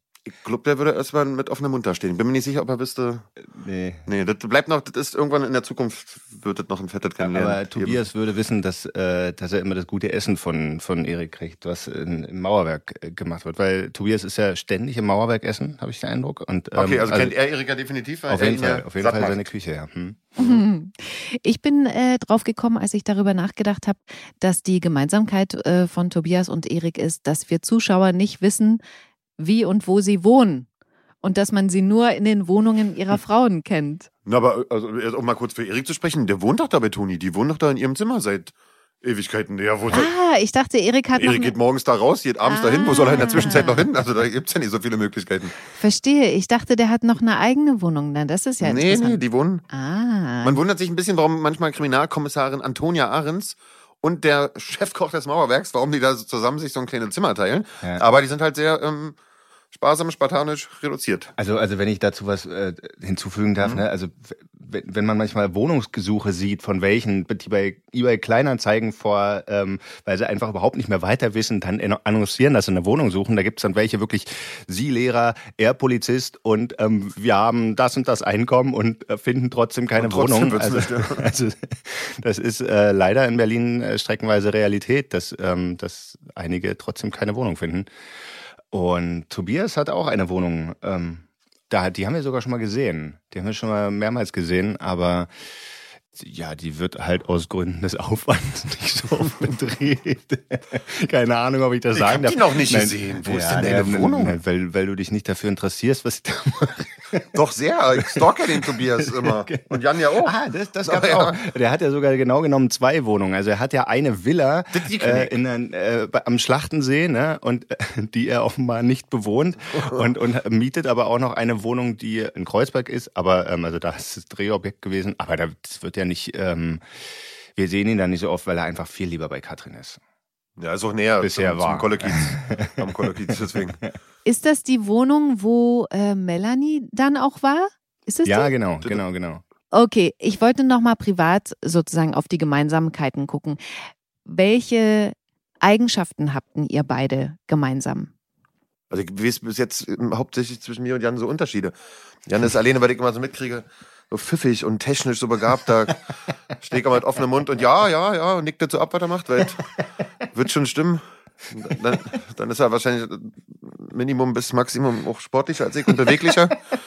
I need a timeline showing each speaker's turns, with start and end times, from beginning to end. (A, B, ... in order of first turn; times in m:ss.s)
0:00.3-0:03.3 A
0:03.5-0:04.0 B
0:04.1-0:08.0 A
0:07.2-0:17.3 B
0:16.8-0:19.4 A
0:18.3-0:20.3 B
0:20.4-0:28.8 C
0:29.4-0:30.7 C
0:31.2-0:34.1 C
0:34.3-0:40.1 A
0:39.9-0:41.5 C
0:41.2-0:45.6 A
0:42.5-0:43.9 C
0:45.8-0:49.2 C
0:48.6-0:49.6 A
0:49.7-0:50.6 C
0:50.4-0:59.2 A
0:59.7-1:01.3 A
1:01.4-1:27.9 B
1:20.0-1:21.2 A
1:28.7-1:35.3 B
1:36.1-1:47.3 B
1:42.0-1:44.4 A
1:47.3-1:50.3 A
1:48.0-1:49.7 B
1:50.2-2:06.8 B
1:50.8-1:51.4 A
1:54.7-1:55.3 A
1:59.8-2:00.1 A
2:07.6-2:10.0 B
2:10.6-2:13.8 A
2:11.2-2:12.8 B
2:14.2-2:18.5 C
2:18.2-2:19.4 B
2:19.7-2:23.6 C
2:24.3-2:28.1 C
2:28.9-2:31.7 A
2:32.3-2:36.1 A
2:36.6-2:39.7 A
2:40.3-2:46.6 A